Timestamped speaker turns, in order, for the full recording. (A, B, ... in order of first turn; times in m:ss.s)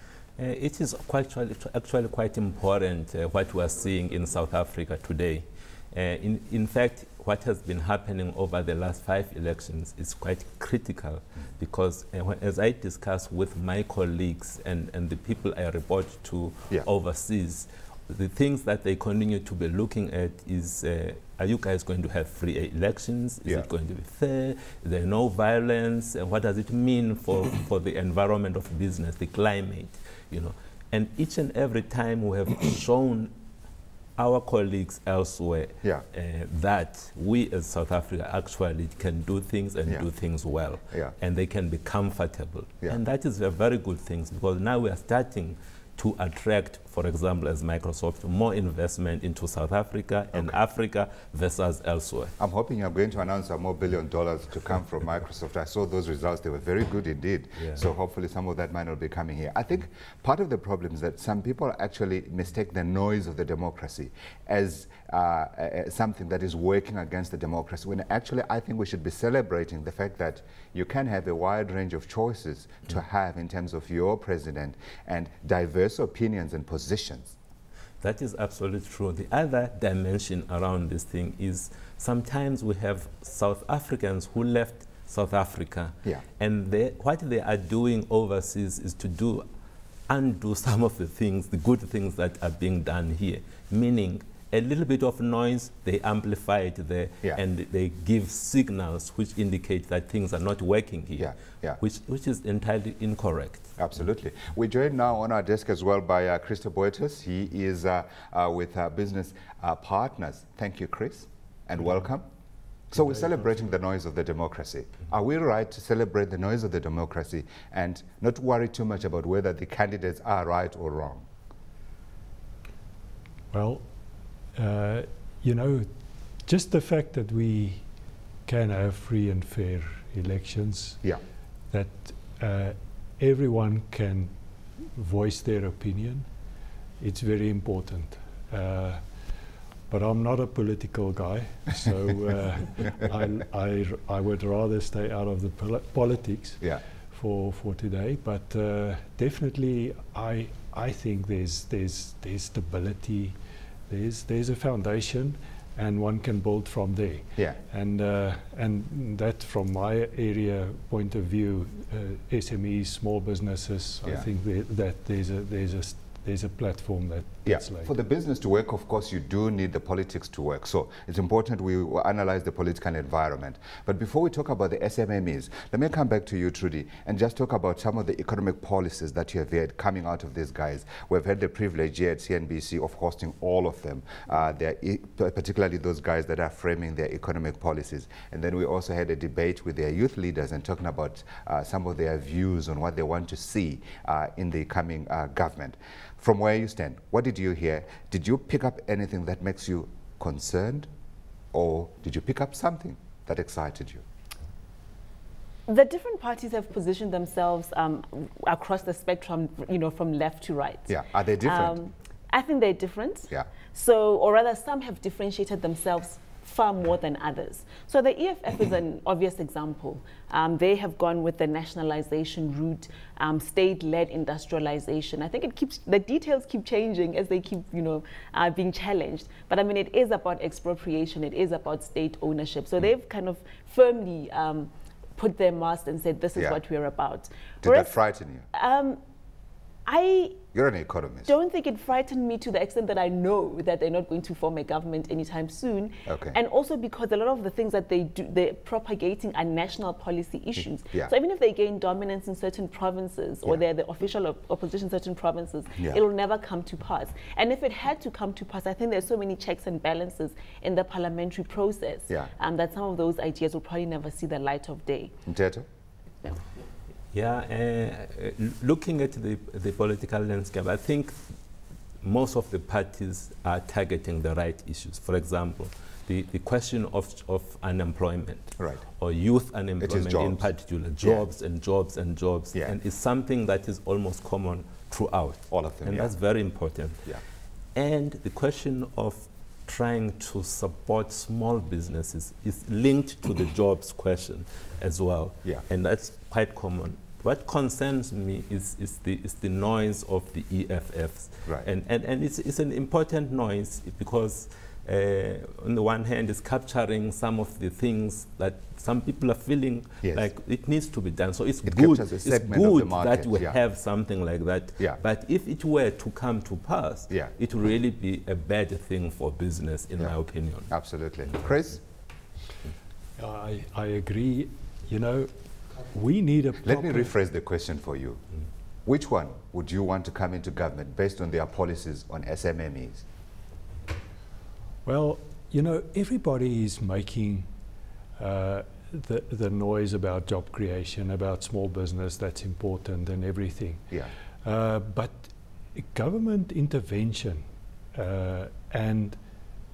0:00.4-0:33.3 A
0:34.2-0:52.4 A
0:52.4-1:17.4 B
1:18.0-1:29.5 A
1:30.1-1:43.7 A
1:41.2-1:41.8 B
1:43.8-1:52.3 B
1:52.9-2:01.3 B
2:03.5-2:03.9 C
2:04.5-2:07.8 C
2:08.5-2:11.0 C
2:11.7-2:16.3 C
2:17.0-2:19.0 C
2:19.9-2:33.4 C
2:33.9-2:47.9 C
2:47.5-3:20.9 B
3:21.5-3:24.0 B
3:25.7-3:58.0 D
3:30.9-3:31.8 B
3:57.6-3:58.5 B
3:58.5-3:59.0 D
3:59.9-4:00.4 D
4:00.5-4:01.3 B
4:01.2-4:25.2 D
4:06.1-4:06.4 B
4:10.6-4:11.1 B
4:25.3-4:25.7 B
4:27.1-4:31.4 A
4:32.0-4:47.1 A
4:38.6-4:38.8 B
4:39.8-4:40.5 B
4:45.5-4:46.1 B
4:47.8-5:20.7 A
5:10.0-5:10.3 B
5:11.6-5:13.6 B
5:20.7-5:21.8 B
5:23.2-5:27.1 C
5:26.6-5:28.2 B
5:28.9-5:33.0 B
5:34.8-5:37.5 C
5:38.2-5:47.4 C
5:47.9-5:49.2 C